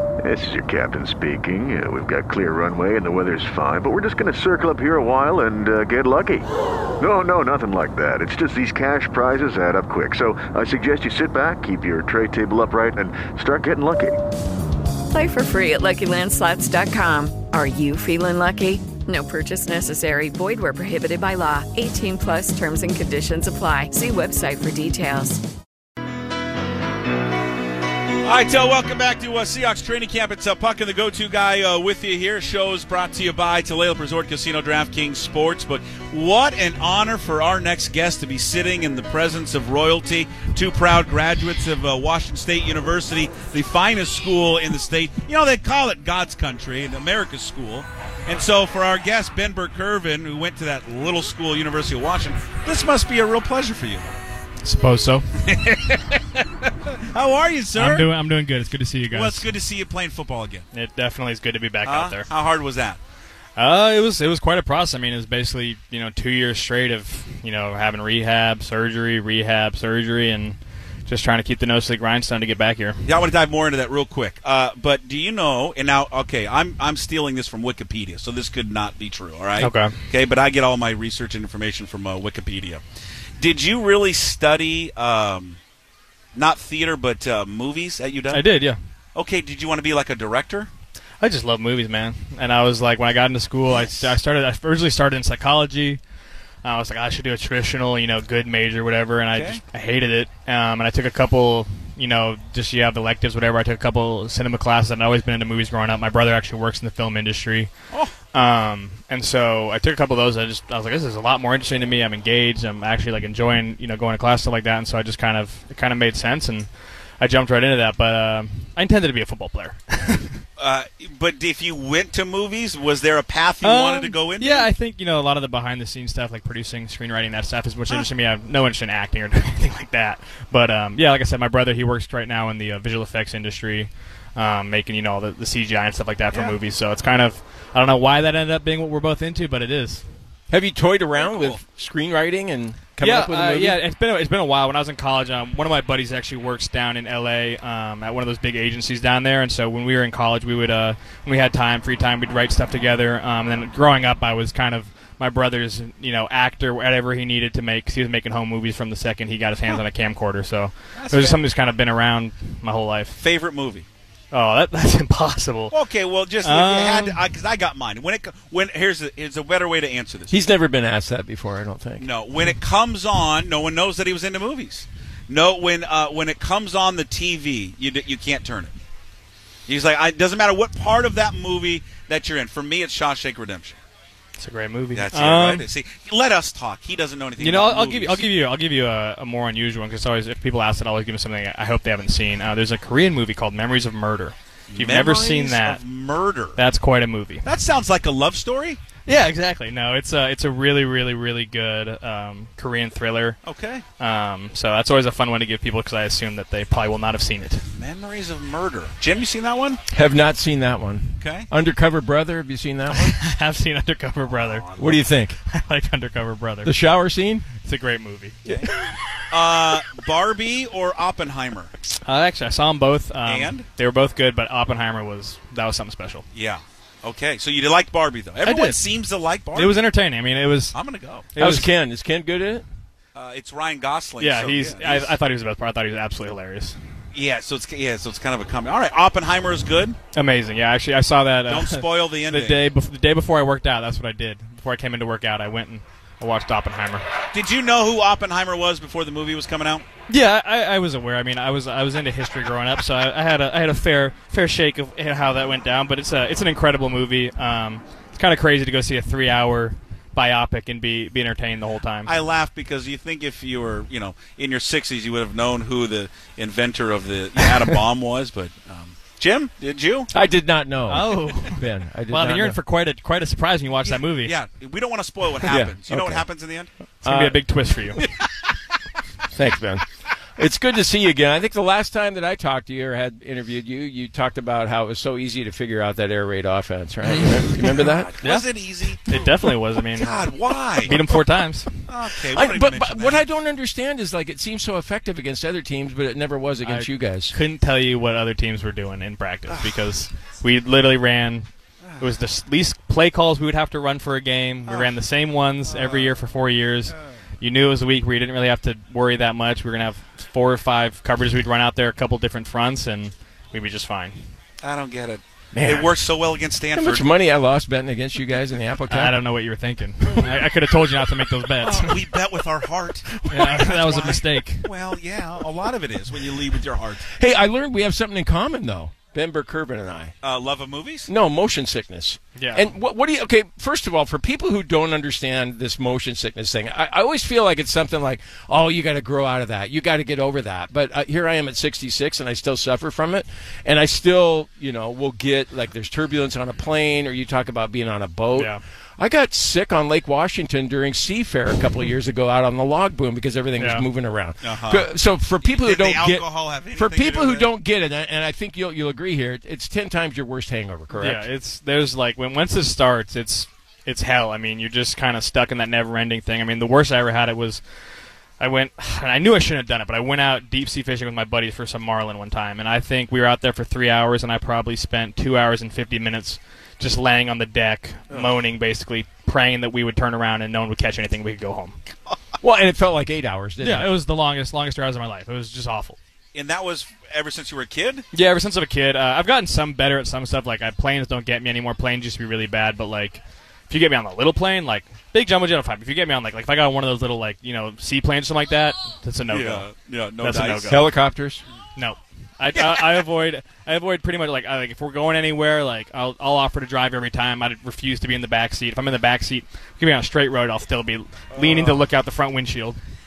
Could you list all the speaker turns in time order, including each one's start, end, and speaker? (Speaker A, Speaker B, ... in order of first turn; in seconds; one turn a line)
Speaker A: 0.2-6.5
Speaker A: 7.0-14.2
Speaker B: 15.1-25.4
Speaker C: 28.2-54.2
Speaker D: 54.6-55.2
Speaker C: 55.4-58.1
Speaker D: 57.7-59.5
Speaker C: 59.1-60.6
Speaker D: 60.7-62.3
Speaker C: 61.8-63.0
Speaker D: 63.5-73.0
Speaker C: 73.0-82.8
Speaker D: 79.6-79.9
Speaker C: 83.4-85.6
Speaker C: 86.3-88.4
Speaker D: 88.3-88.8
Speaker C: 89.1-90.7
Speaker D: 91.2-96.0
Speaker C: 93.7-94.0
Speaker D: 96.6-107.7
Speaker C: 99.3-99.6
Speaker D: 108.3-120.4
Speaker C: 120.6-124.7
Speaker D: 123.6-140.0
Speaker E: 140.5-143.8
Speaker C: 141.2-141.6
Speaker D: 143.0-163.2
Speaker C: 160.9-161.4
Speaker C: 163.2-163.8
Speaker D: 164.3-165.7
Speaker C: 165.7-170.4
Speaker D: 166.4-167.2
Speaker E: 170.3-172.1
Speaker C: 172.0-178.7
Speaker C: 179.7-183.8
Speaker D: 184.4-185.7
Speaker C: 184.9-188.2
Speaker D: 187.4-195.8
Speaker C: 194.7-196.6
Speaker D: 196.6-197.4
Speaker C: 197.4-198.8
Speaker D: 199.1-203.4
Speaker C: 203.4-203.8
Speaker D: 204.0-207.6
Speaker C: 207.7-209.8
Speaker E: 209.9-213.2
Speaker C: 211.2-211.5
Speaker D: 212.9-216.7
Speaker E: 214.8-215.4
Speaker E: 216.6-217.5
Speaker D: 217.6-218.4
Speaker C: 219.3-221.7
Speaker D: 222.0-226.2
Speaker C: 223.2-223.7
Speaker C: 226.3-229.8
Speaker D: 228.4-228.8
Speaker D: 229.5-230.8
Speaker C: 230.7-231.3
Speaker D: 231.3-231.7
Speaker E: 231.4-232.6
Speaker C: 233.1-235.1
Speaker D: 234.2-236.8
Speaker C: 237.1-240.0
Speaker D: 240.1-247.0
Speaker C: 241.5-242.6
Speaker C: 247.3-249.8
Speaker D: 250.1-262.2
Speaker C: 262.1-270.1
Speaker E: 270.1-272.6
Speaker D: 270.9-274.3
Speaker C: 273.8-276.7
Speaker E: 275.5-276.2
Speaker D: 277.0-278.0
Speaker E: 277.0-277.4
Speaker E: 279.3-279.8
Speaker E: 280.4-288.2
Speaker C: 287.6-289.2
Speaker D: 288.2-288.5
Speaker D: 289.1-290.3
Speaker C: 290.0-291.0
Speaker D: 290.8-291.8
Speaker C: 291.9-293.2
Speaker E: 292.2-297.3
Speaker D: 296.6-301.5
Speaker C: 299.5-299.7
Speaker C: 301.8-302.1
Speaker D: 302.0-314.3
Speaker C: 305.7-306.1
Speaker C: 314.6-317.1
Speaker E: 315.5-315.9
Speaker E: 316.7-319.2
Speaker D: 318.9-322.0
Speaker C: 321.6-327.1
Speaker D: 323.2-324.7
Speaker E: 327.1-330.1
Speaker C: 330.2-331.1
Speaker E: 331.1-356.2
Speaker D: 332.4-332.7
Speaker D: 348.4-348.6
Speaker D: 353.6-353.9
Speaker C: 354.4-354.9
Speaker C: 355.4-357.5
Speaker E: 356.8-361.2
Speaker D: 360.9-367.6
Speaker D: 368.4-381.8
Speaker E: 382.4-383.9
Speaker D: 383.6-386.0
Speaker C: 386.3-388.0
Speaker D: 388.1-399.7
Speaker C: 399.3-400.8
Speaker D: 400.2-400.8
Speaker E: 400.7-401.4
Speaker D: 401.8-412.8
Speaker C: 402.5-403.0
Speaker C: 411.3-411.8